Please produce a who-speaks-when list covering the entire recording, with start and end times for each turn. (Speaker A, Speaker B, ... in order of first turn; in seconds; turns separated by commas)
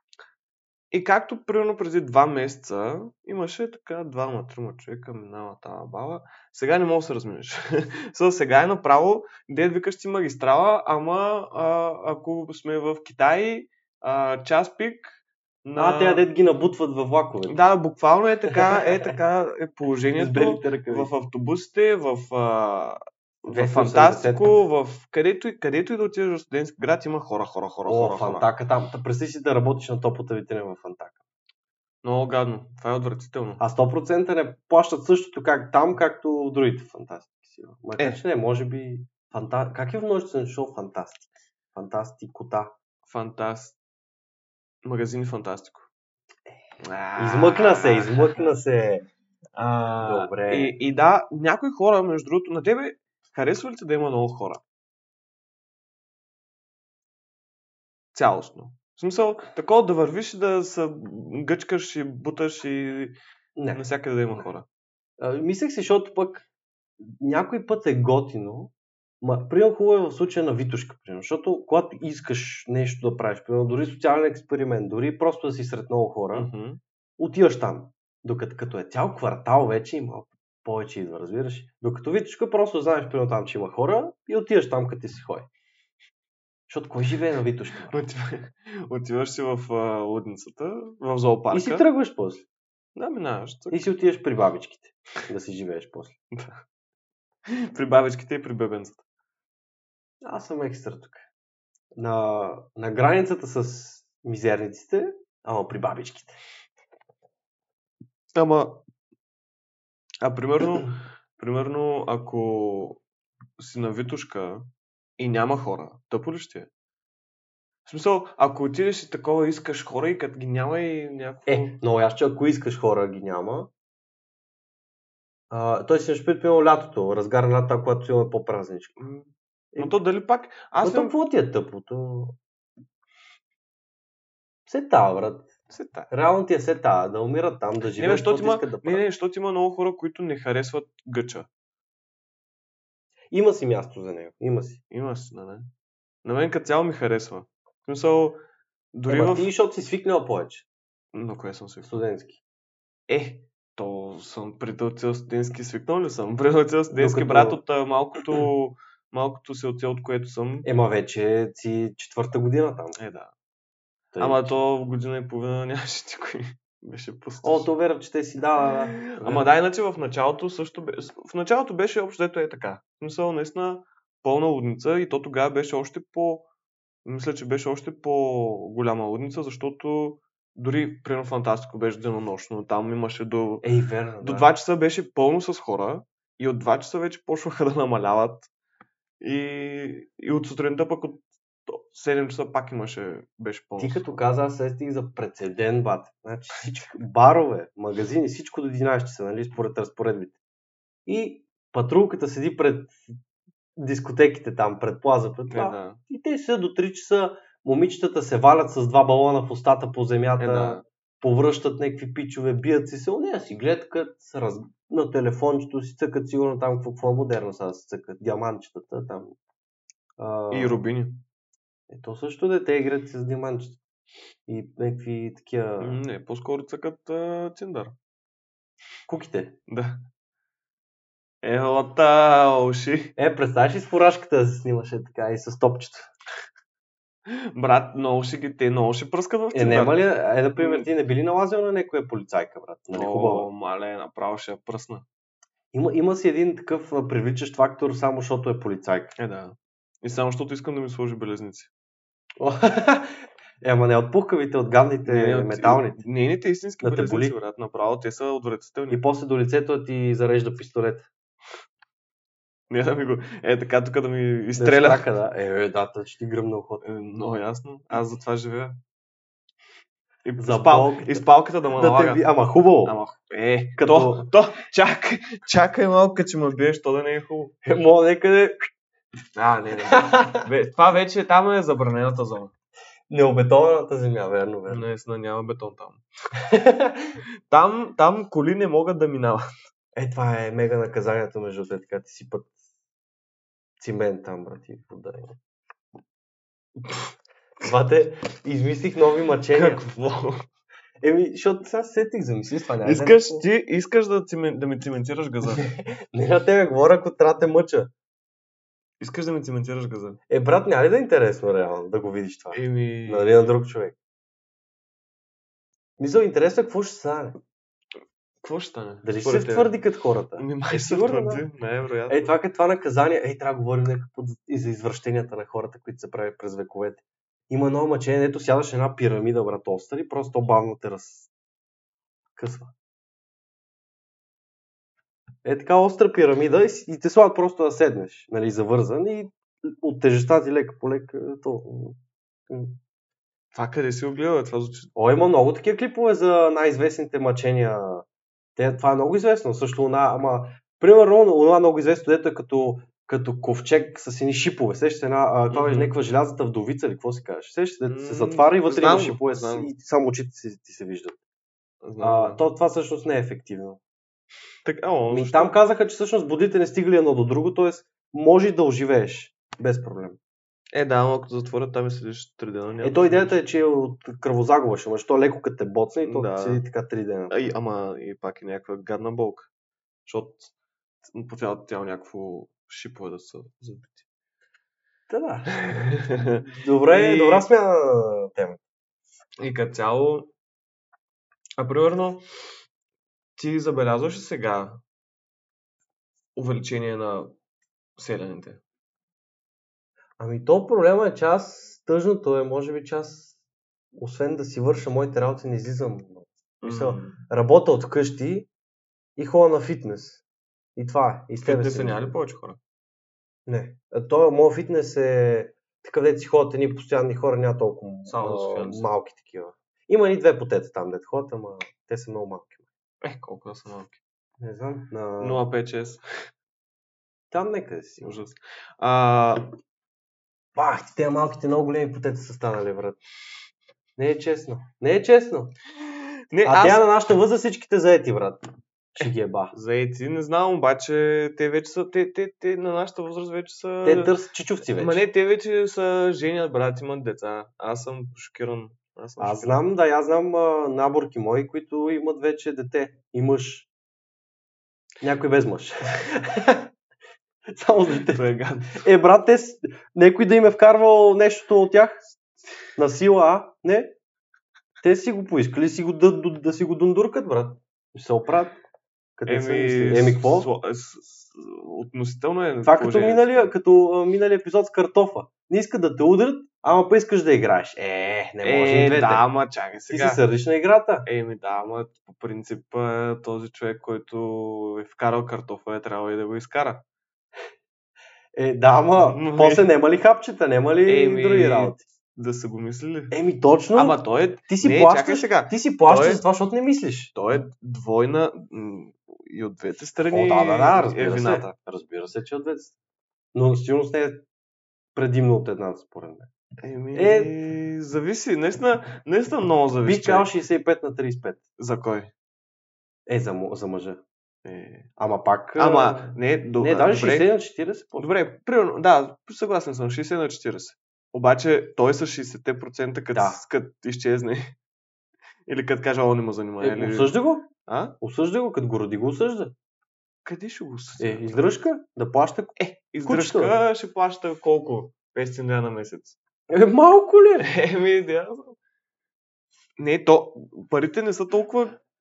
Speaker A: 0.9-16.2, Speaker B: 15.8-17.6, Speaker A: 17.4-28.5, Speaker B: 18.5-19.1, Speaker B: 20.2-21.1, Speaker B: 23.5-24.6, Speaker B: 27.9-31.2, Speaker A: 32.0-33.6, Speaker B: 33.6-42.7, Speaker A: 43.1-43.8, Speaker A: 44.8-45.9, Speaker A: 46.8-48.5, Speaker B: 47.2-49.0, Speaker A: 49.5-54.6, Speaker B: 50.0-50.8, Speaker A: 58.1-63.2, Speaker B: 63.5-63.8, Speaker A: 63.7-64.7, Speaker B: 65.2-66.5, Speaker B: 67.0-76.5, Speaker A: 76.3-76.8, Speaker B: 77.2-85.5, Speaker B: 86.7-88.0, Speaker A: 87.9-91.8, Speaker B: 91.5-92.5, Speaker A: 93.0-93.9, Speaker B: 93.7-96.1, Speaker A: 96.3-96.6, Speaker A: 97.7-99.0, Speaker B: 100.2-101.3, Speaker B: 101.9-106.4, Speaker A: 108.3-108.8, Speaker A: 110.2-113.0, Speaker A: 113.6-116.7, Speaker A: 117.8-121.8, Speaker B: 121.5-123.7, Speaker B: 125.5-129.0, Speaker A: 129.0-131.2, Speaker B: 129.7-130.0, Speaker B: 130.8-132.4, Speaker B: 134.7-135.5, Speaker A: 135.7-136.1, Speaker B: 136.1-139.0, Speaker A: 138.0-141.5, Speaker B: 143.3-144.8, Speaker A: 144.9-145.7, Speaker A: 146.2-148.4, Speaker A: 148.9-149.5, Speaker B: 149.1-150.7, Speaker A: 151.1-152.0, Speaker B: 151.8-152.4, Speaker A: 153.1-160.7, Speaker B: 156.9-157.6, Speaker B: 160.6-163.0, Speaker A: 162.9-163.3, Speaker B: 164.1-164.6, Speaker A: 164.2-167.7, Speaker B: 167.4-169.5, Speaker A: 169.0-176.5, Speaker A: 177.0-183.7, Speaker B: 183.6-184.5, Speaker A: 184.2-188.5, Speaker A: 189.2-194.2, Speaker B: 193.8-200.4, Speaker B: 201.1-203.0, Speaker B: 203.8-219.3, Speaker A: 205.5-206.0, Speaker A: 210.4-210.8, Speaker B: 220.2-220.8, Speaker A: 220.5-221.2, Speaker B: 221.9-223.8, Speaker B: 224.5-226.0, Speaker A: 225.8-227.9, Speaker B: 229.1-229.6, Speaker A: 229.7-230.0, Speaker A: 231.4-233.1, Speaker B: 233.2-236.1, Speaker A: 237.3-240.9, Speaker B: 239.5-243.5, Speaker A: 242.9-245.0, Speaker B: 245.7-249.1, Speaker A: 249.2-251.7, Speaker B: 252.4-256.0, Speaker A: 255.0-259.0, Speaker B: 256.8-257.4, Speaker B: 258.9-261.1, Speaker A: 262.7-265.1, Speaker B: 264.6-266.8, Speaker A: 266.8-268.8, Speaker A: 270.2-272.3, Speaker B: 270.4-272.9, Speaker A: 272.8-277.5, Speaker B: 273.8-274.3, Speaker B: 277.6-278.7, Speaker A: 279.4-282.5, Speaker B: 279.9-280.4, Speaker B: 283.1-284.8, Speaker A: 284.7-286.0, Speaker B: 286.5-287.1, Speaker A: 287.5-289.4, Speaker B: 289.9-292.5, Speaker B: 293.8-295.4, Speaker B: 297.6-299.8, Speaker A: 299.5-300.4, Speaker B: 301.0-303.4, Speaker A: 302.8-305.7, Speaker B: 305.6-307.9, Speaker A: 309.0-310.2, Speaker B: 310.3-313.9, Speaker A: 312.5-313.5, Speaker B: 316.0-317.4, Speaker A: 318.4-319.8, Speaker B: 319.0-321.4, Speaker A: 320.4-322.3, Speaker B: 322.1-331.3, Speaker B: 332.4-332.7, Speaker B: 335.4-342.8, Speaker A: 343.5-344.9, Speaker B: 344.9-361.2, Speaker A: 355.5-355.9, Speaker A: 357.9-359.7, Speaker A: 361.8-362.4, Speaker B: 362.0-363.8, Speaker A: 364.6-365.6, Speaker B: 365.1-370.2, Speaker A: 370.7-373.4, Speaker B: 372.8-377.4, Speaker A: 376.0-376.6, Speaker A: 377.3-379.5, Speaker A: 380.1-380.5, Speaker A: 381.1-384.0, Speaker B: 385.1-388.6, Speaker A: 385.6-387.5, Speaker A: 389.4-390.3, Speaker A: 391.6-392.2, Speaker A: 393.4-394.8, Speaker A: 396.4-397.3, Speaker A: 398.0-398.6, Speaker B: 400.2-403.3, Speaker B: 403.9-408.5, Speaker A: 406.6-407.2, Speaker B: 409.2-410.2, Speaker B: 410.8-412.1, Speaker A: 411.4-412.6, Speaker B: 413.4-422.6, Speaker A: 418.1-418.9, Speaker A: 423.0-424.0, Speaker B: 424.4-425.4, Speaker A: 425.2-426.0, Speaker B: 427.3-428.1, Speaker A: 428.0-429.5, Speaker B: 430.5-433.0, Speaker B: 434.0-435.5, Speaker A: 436.3-436.9, Speaker B: 436.4-439.5, Speaker A: 439.0-444.1, Speaker B: 443.8-445.0, Speaker A: 444.7-449.6, Speaker B: 449.2-453.7, Speaker B: 455.0-456.7, Speaker B: 457.5-462.0, Speaker A: 458.1-458.8, Speaker B: 462.8-463.9, Speaker B: 464.8-468.6, Speaker B: 469.2-470.5, Speaker A: 469.3-473.5, Speaker B: 472.6-479.2, Speaker A: 478.4-480.2, Speaker B: 479.9-481.1, Speaker A: 481.1-486.8, Speaker B: 488.3-491.8, Speaker A: 489.0-489.7, Speaker A: 490.9-493.1, Speaker B: 493.1-497.1, Speaker A: 493.7-496.2, Speaker A: 497.1-501.5, Speaker B: 500.0-502.7, Speaker B: 503.3-504.2, Speaker B: 504.9-506.3, Speaker A: 506.6-510.3, Speaker B: 506.9-507.3, Speaker B: 509.8-511.4, Speaker A: 511.6-512.1, Speaker B: 513.1-514.0, Speaker A: 514.4-514.9, Speaker B: 515.0-518.1, Speaker A: 515.6-517.3, Speaker A: 518.0-524.5, Speaker B: 523.1-523.4, Speaker A: 525.5-527.9, Speaker B: 526.6-527.5, Speaker B: 528.0-529.5, Speaker A: 530.2-531.5, Speaker B: 531.0-533.5, Speaker A: 532.6-536.2, Speaker B: 536.5-537.5, Speaker A: 537.4-538.6, Speaker A: 539.8-541.8